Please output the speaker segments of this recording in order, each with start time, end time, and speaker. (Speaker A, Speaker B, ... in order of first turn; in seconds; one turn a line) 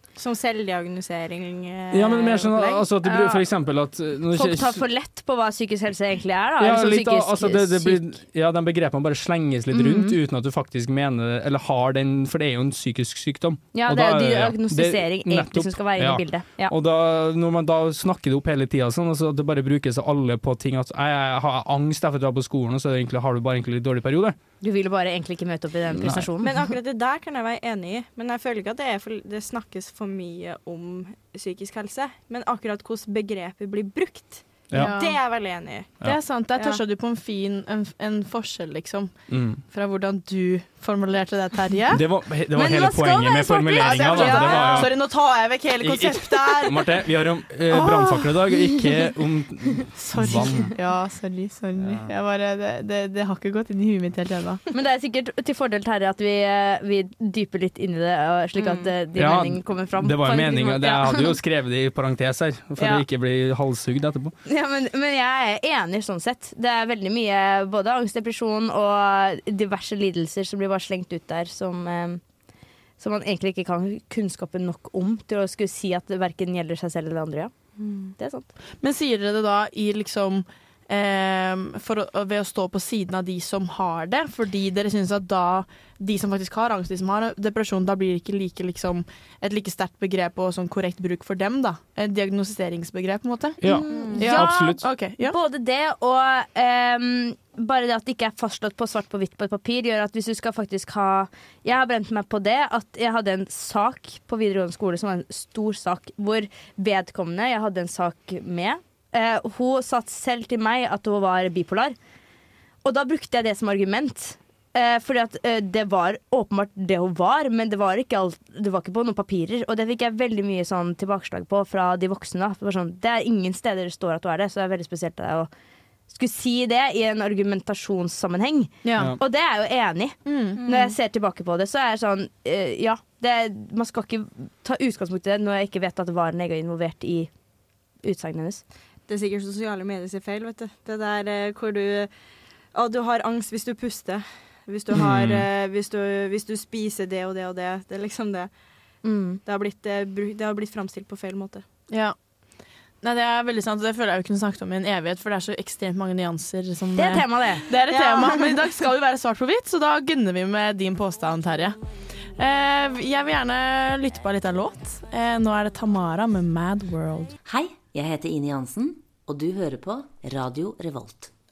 Speaker A: 0.2-2.9
Speaker B: 1.9-4.8
Speaker C: 3.0-3.4
Speaker C: 4.3-8.0
Speaker B: 6.6-24.4
Speaker C: 9.7-10.2
Speaker C: 13.7-16.8
Speaker C: 24.6-26.6
Speaker B: 26.0-26.3
Speaker A: 26.4-35.9
Speaker D: 34.7-35.2
Speaker D: 36.0-39.1
Speaker A: 36.6-36.8
Speaker B: 39.3-39.6
Speaker D: 39.7-42.0
Speaker B: 41.9-45.0
Speaker C: 42.5-44.8
Speaker D: 43.8-47.0
Speaker B: 45.8-50.7
Speaker D: 47.7-48.4
Speaker D: 50.0-54.6
Speaker B: 51.8-52.1
Speaker C: 54.7-61.4
Speaker A: 58.6-58.9
Speaker B: 59.2-64.3
Speaker C: 64.5-72.2
Speaker C: 73.0-77.5
Speaker A: 77.8-78.1
Speaker C: 78.2-78.5
Speaker D: 78.8-95.4
Speaker B: 93.6-94.8
Speaker C: 93.7-112.0
Speaker C: 112.8-125.5
Speaker C: 126.1-137.3
Speaker D: 128.8-129.2
Speaker D: 130.3-130.6
Speaker A: 130.6-131.0
Speaker C: 138.0-138.6
Speaker A: 139.1-142.1
Speaker A: 142.7-148.5
Speaker B: 144.9-145.5
Speaker C: 149.0-149.4
Speaker A: 149.4-151.6
Speaker D: 151.9-152.2
Speaker D: 153.0-161.8
Speaker C: 157.0-157.7
Speaker A: 157.9-158.6
Speaker D: 162.4-167.3
Speaker E: 167.4-171.3